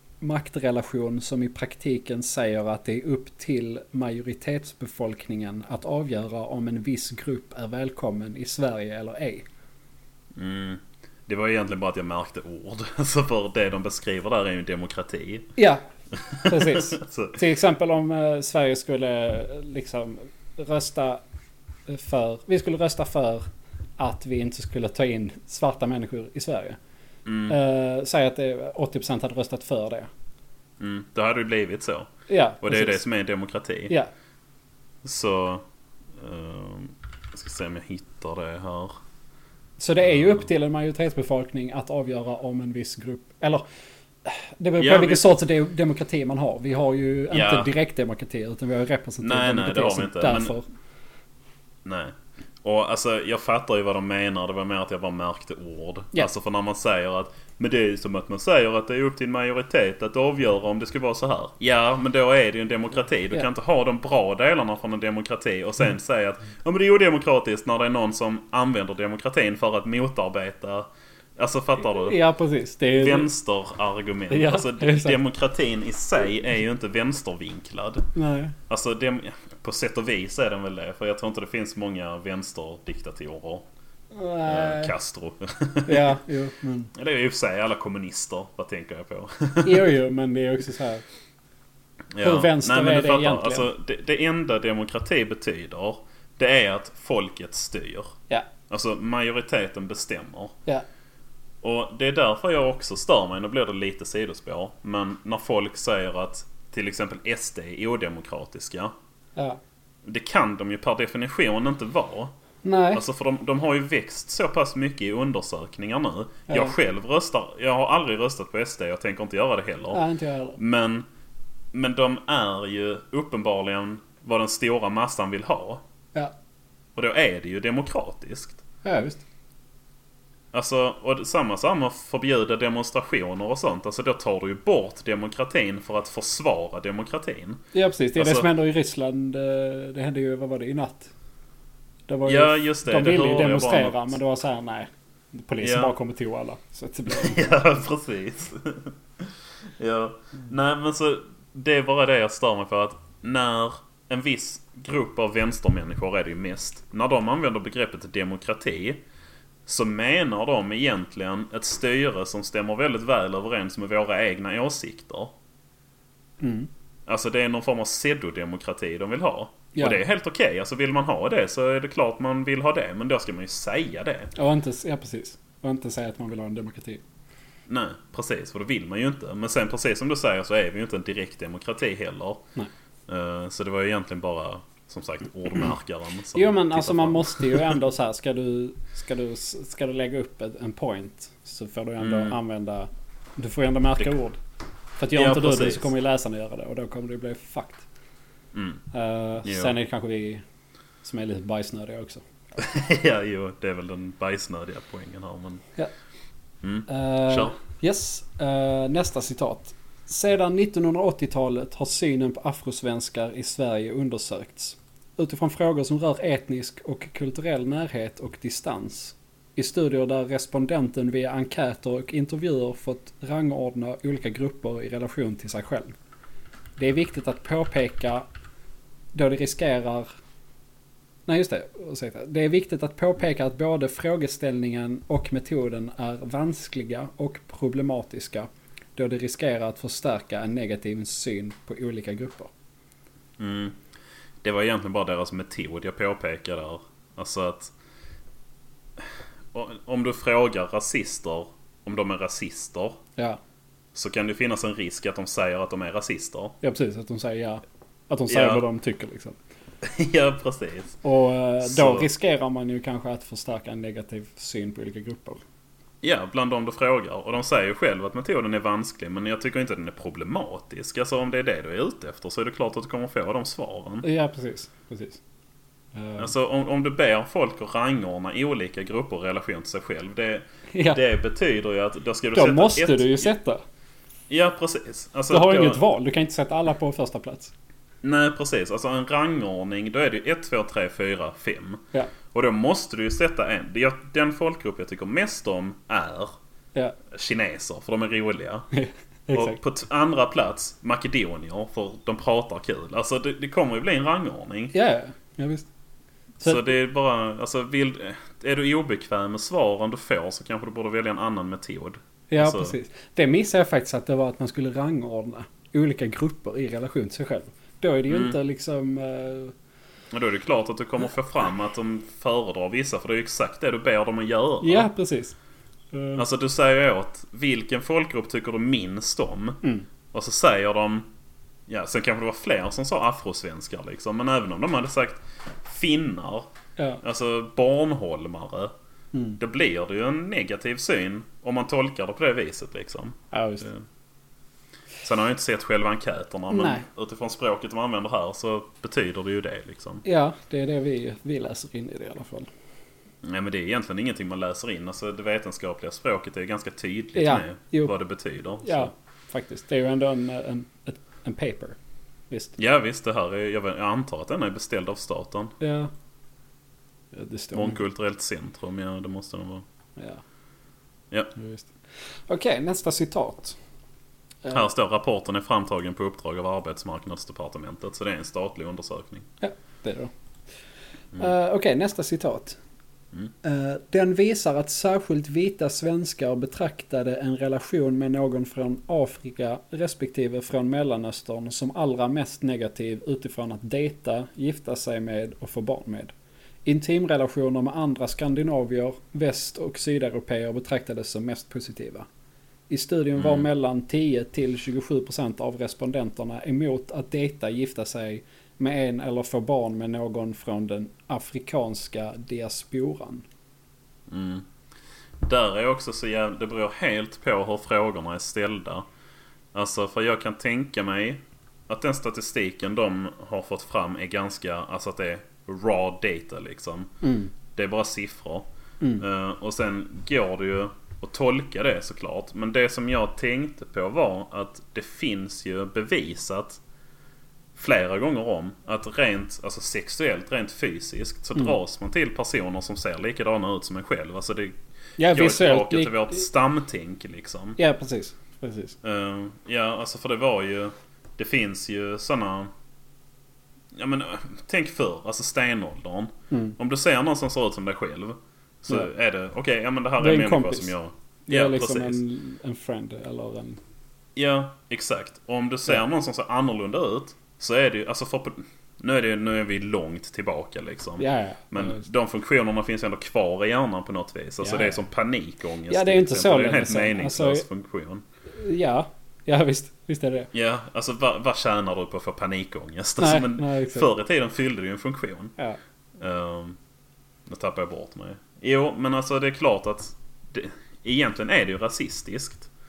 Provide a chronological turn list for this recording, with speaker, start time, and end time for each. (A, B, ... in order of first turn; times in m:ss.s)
0:00.2-0:09.5 A
0:10.4-0:15.5 B
0:15.6-0:15.8 A
0:16.2-0:17.4 B
0:16.4-0:21.2 A
0:21.9-0:23.4 A
0:24.0-0:26.8 A
0:27.3-0:27.6 B
0:27.5-0:30.1 A
0:30.8-0:32.1 B
0:32.3-0:33.0 A
0:32.6-0:33.9 B
0:35.0-0:39.0 B
0:39.8-0:43.6 A
0:44.2-0:50.7 A
0:44.8-0:45.3 B
0:47.3-0:47.7 B
0:49.2-0:50.6 B
0:51.8-1:12.2 B
1:11.8-1:13.3 A
1:12.9-1:18.1 B
1:14.3-1:15.2 A
1:18.2-1:18.6 A
1:18.7-1:23.7 B
1:24.1-1:24.9 A
1:24.5-1:26.2 B
1:25.8-1:26.9 A
1:26.9-1:29.9 B
1:29.6-1:31.0 A
1:32.2-1:38.1 B
1:32.2-1:33.7 A
1:38.7-1:40.6 B
1:41.6-1:48.9 B
1:50.0-1:52.3 B
1:52.6-1:53.0 A
1:52.9-2:00.0 B
1:56.5-1:56.8 A
1:59.9-2:00.6 A
2:00.6-2:01.1 B
2:01.7-2:05.8 B
2:07.0-2:08.6 B
2:08.8-2:09.2 A
2:10.5-2:17.6 B
2:17.7-2:21.1 A
2:18.2-2:18.5 B
2:22.1-2:27.4 A
2:22.3-2:24.2 B
2:25.6-2:25.9 B
2:27.1-2:39.0 B
2:39.7-2:45.3 B
2:46.4-2:46.7 A
2:47.1-2:54.3 B
2:49.8-2:50.0 A
2:54.4-2:57.0 A
2:57.7-3:02.4 B
3:03.1-3:07.8 B
3:06.4-3:14.4 A
3:12.0-3:12.4 B
3:15.0-3:17.8 A
3:15.2-3:15.9 B
3:18.5-3:18.8 B
3:18.9-3:20.4 A
3:19.4-3:19.7 B
3:21.0-3:22.2 A
3:22.6-3:25.6 B
3:26.6-3:27.6 B
3:26.9-3:45.9 A
3:46.8-3:48.2 A
3:49.1-3:50.1 A
3:51.3-4:02.5 A
4:03.4-4:03.8 B
4:04.4-4:07.7 B
4:09.0-4:13.0 B
4:13.9-4:16.6 B
4:16.6-4:19.4 A
4:18.3-4:18.6 B
4:19.8-4:21.0 B
4:21.0-4:25.4 A
4:21.6-4:22.1 B
4:26.0-4:34.1 B
4:34.0-4:35.2 A
4:36.0-4:36.3 A
4:36.2-4:43.3 B
4:40.7-4:41.0 A
4:42.3-4:43.6 A
4:44.3-4:45.8 B
4:45.3-4:47.5 A
4:48.0-4:56.3 B
4:57.1-4:58.7 B
4:58.7-4:59.6 A
4:59.3-5:04.7 B
5:04.7-5:05.7 A
5:06.4-5:12.8 B
5:06.4-5:06.7 A
5:12.3-5:19.5 A
5:18.1-5:18.4 B
5:20.1-5:24.9 B
5:24.6-5:25.4 A
5:25.9-5:26.2 A
5:26.2-5:29.6 B
5:30.1-5:31.1 B
5:31.7-5:36.5 B
5:37.0-5:38.7 B
5:39.1-5:39.4 A
5:39.4-5:43.8 B
5:43.3-5:43.7 A
5:45.0-5:50.0 B
5:46.5-5:46.8 A
5:50.0-5:52.5 A
5:53.2-5:58.9 B
5:57.2-5:57.9 A
5:58.6-6:01.8 A
6:02.3-6:02.6 A
6:02.6-6:05.5 B
6:05.6-6:05.9 A
6:07.1-6:07.8 A
6:07.5-6:09.6 B
6:11.4-6:11.7 A
6:12.3-6:13.6 A
6:14.5-6:19.3 B
6:19.4-6:20.1 A
6:21.2-6:22.6 A
6:23.4-6:36.1 A
6:36.6-6:42.1 A
6:42.7-6:53.2 A
6:43.2-6:43.5 B
6:54.1-6:54.5 B
6:55.2-6:58.9 B
6:59.5-7:06.9 B
7:07.0-7:07.3 A
7:07.5-7:08.5 B
7:09.0-7:16.6 B
7:17.6-7:27.6 B
7:25.0-7:26.2 A
7:27.6-7:28.8 A
7:28.8-7:32.5 B
7:33.7-7:42.0 B
7:36.3-7:36.6 A
7:40.0-7:40.7 A
7:41.3-7:43.6 A
7:44.2-7:58.0 B
7:51.0-7:51.8 A
7:54.4-7:54.8 A
7:55.7-7:57.4 A
7:58.3-8:00.3 A
8:00.3-8:05.4 B
8:03.0-8:03.9 A
8:06.0-8:06.6 B
8:07.3-8:12.5 B